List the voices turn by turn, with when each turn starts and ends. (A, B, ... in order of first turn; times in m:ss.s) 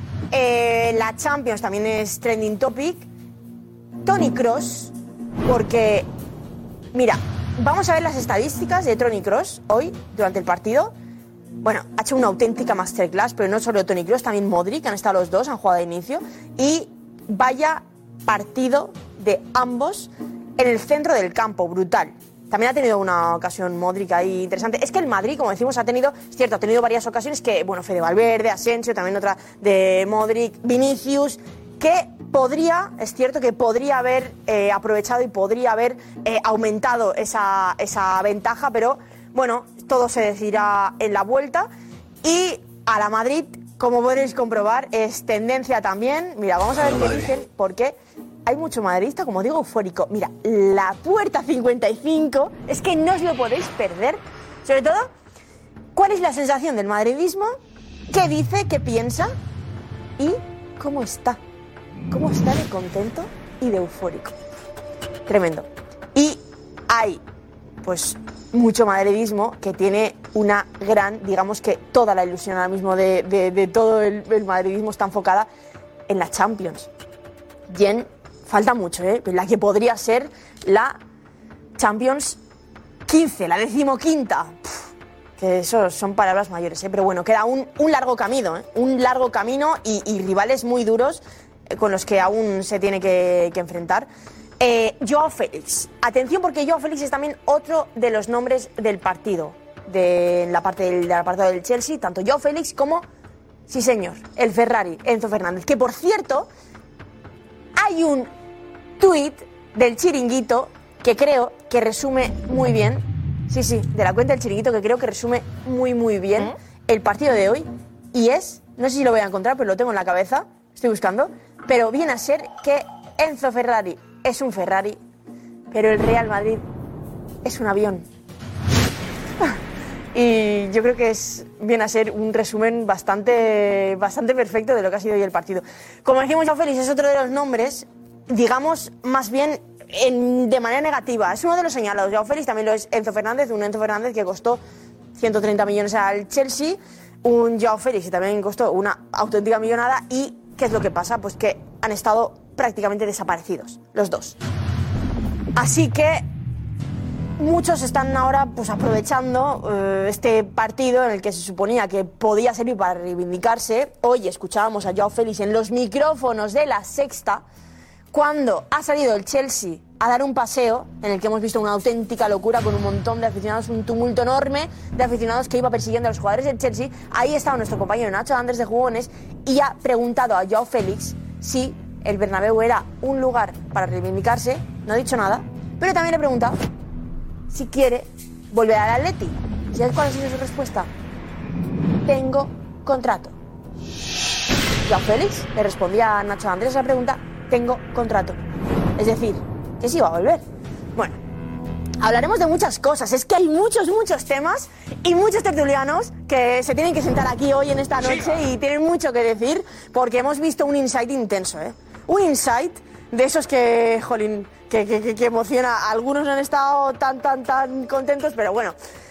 0:00.3-0:03.1 A
0:04.0-0:04.9 A
0:05.4-0:06.1 A
0:06.9-0:10.9 A
0:11.6-0:41.7 A
0:42.2-0:55.1 A
0:56.0-0:57.5 A
0:58.1-0:59.3 A
1:00.2-1:01.4 A
1:02.1-1:04.4 A
1:05.3-1:07.2 A
1:07.8-1:15.5 A
1:16.1-1:16.9 A
1:17.7-1:21.0 A
1:21.8-1:22.4 A
1:23.1-1:24.8 A
1:25.4-1:34.1 A
1:34.6-1:43.1 A
1:43.7-1:46.5 A
1:47.8-1:48.3 A
1:49.0-2:05.0 A
2:05.7-2:06.6 A
2:07.4-2:08.0 A
2:10.1-2:24.6 A
2:25.2-2:34.4 A
2:35.6-2:36.2 A
2:37.4-2:47.4 A
2:48.1-3:06.6 A
3:07.5-3:10.9 A
3:12.1-3:13.3 A
3:14.8-3:18.4 A
3:19.0-3:20.4 A
3:22.0-3:38.8 A